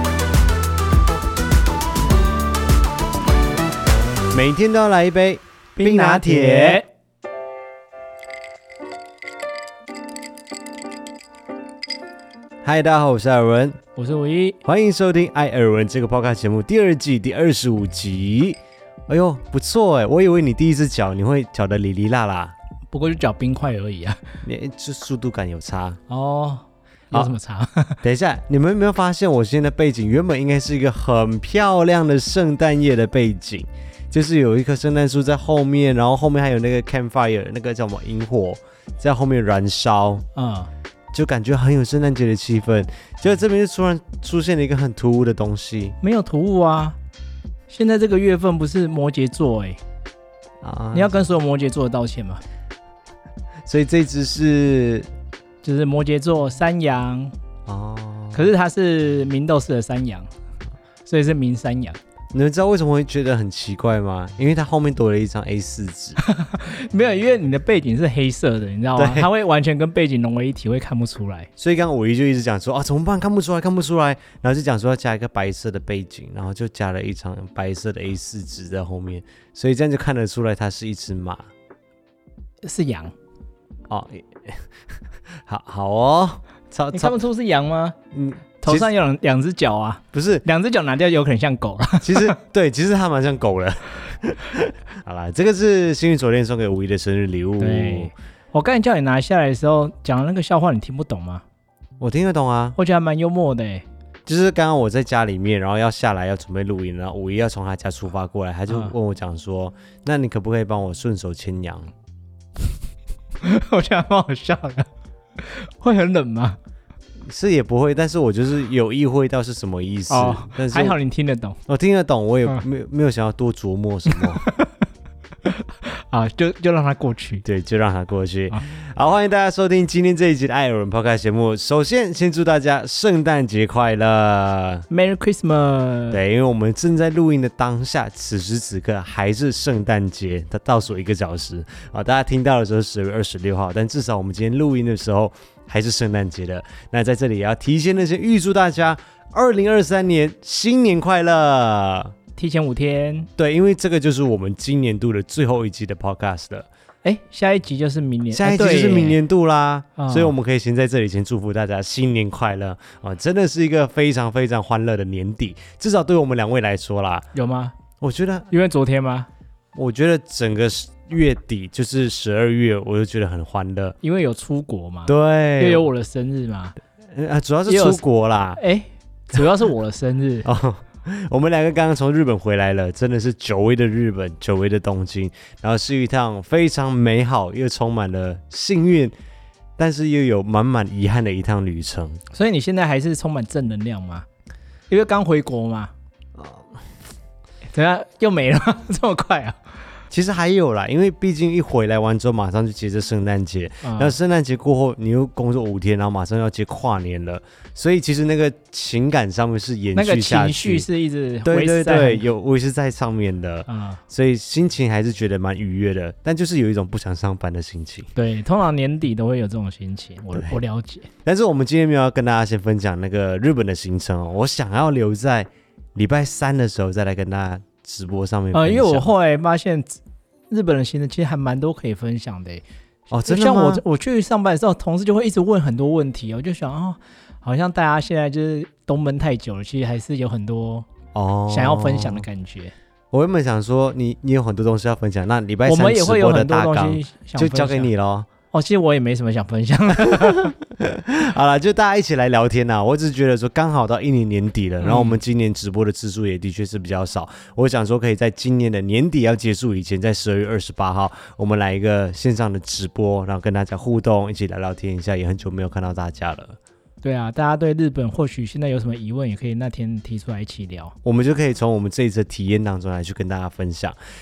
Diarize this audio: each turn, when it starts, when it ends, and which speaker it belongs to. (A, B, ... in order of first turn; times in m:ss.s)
0:04.3-0:06.8 A
0:05.8-0:06.9 B
0:12.6-0:13.8 A
0:14.0-0:14.6 B
0:14.6-0:22.6 A
0:22.9-0:24.2 B
0:24.4-0:26.0 A
0:26.1-0:28.0 B
0:28.0-0:40.2 A
0:40.4-0:40.7 B
0:41.1-0:46.0 A
0:46.0-0:47.0 B
0:47.7-0:49.8 B
0:50.6-0:51.2 A
0:50.9-0:52.4 B
0:53.7-0:55.1 A
0:55.6-0:57.3 B
0:57.7-0:58.5 A
0:58.3-1:00.3 B
1:01.1-1:02.0 B
1:02.3-1:06.2 A
1:06.2-1:11.5 B
1:09.0-1:09.3 A
1:11.6-1:21.5 A
1:22.6-1:23.1 B
1:23.9-1:24.6 A
1:25.5-1:27.2 A
1:26.9-1:28.0 B
1:28.1-1:28.9 A
1:28.6-1:32.4 B
1:30.1-1:30.4 A
1:32.0-1:38.1 A
1:37.6-1:41.4 B
1:42.0-1:42.8 A
1:42.8-1:43.8 B
1:44.3-1:51.9 A
1:53.4-1:56.6 B
1:57.3-2:01.0 A
2:00.1-2:01.6 B
2:01.7-2:04.4 A
2:04.1-2:04.8 B
2:05.4-2:07.4 B
2:07.4-2:14.9 A
2:14.9-2:16.2 B
2:16.1-2:32.1 A
2:32.4-2:33.3 B
2:33.4-2:36.7 A
2:37.0-2:39.2 B
2:38.3-2:47.3 A
2:40.0-2:40.4 B
2:47.3-2:47.8 B
2:48.0-2:48.5 A
2:48.5-2:49.3 B
2:49.8-2:54.0 A
2:54.0-2:56.8 B
2:55.1-2:55.9 A
2:57.1-2:58.6 A
2:57.7-2:58.0 B
2:58.6-3:00.5 B
3:00.4-3:09.1 A
3:09.8-3:12.2 A
3:12.3-3:14.3 B
3:14.9-3:15.9 B
3:16.4-3:16.6 A
3:17.7-3:19.6 B
3:20.1-3:30.9 A
3:23.8-3:24.2 B
3:30.0-3:32.2 B
3:31.4-3:38.1 A
3:33.7-3:34.0 B
3:38.2-3:41.1 B
3:41.2-3:49.1 A
3:48.5-3:50.0 B
3:50.5-3:52.6 B
3:53.1-3:53.8 A
3:53.3-4:00.9 B
4:01.2-4:02.2 A
4:01.5-4:02.7 B
4:03.1-4:08.3 A
4:05.7-4:07.9 B
4:08.5-4:10.5 B
4:10.0-4:26.6 A
4:14.8-4:15.2 B
4:27.0-4:30.9 B
4:31.0-4:34.0 A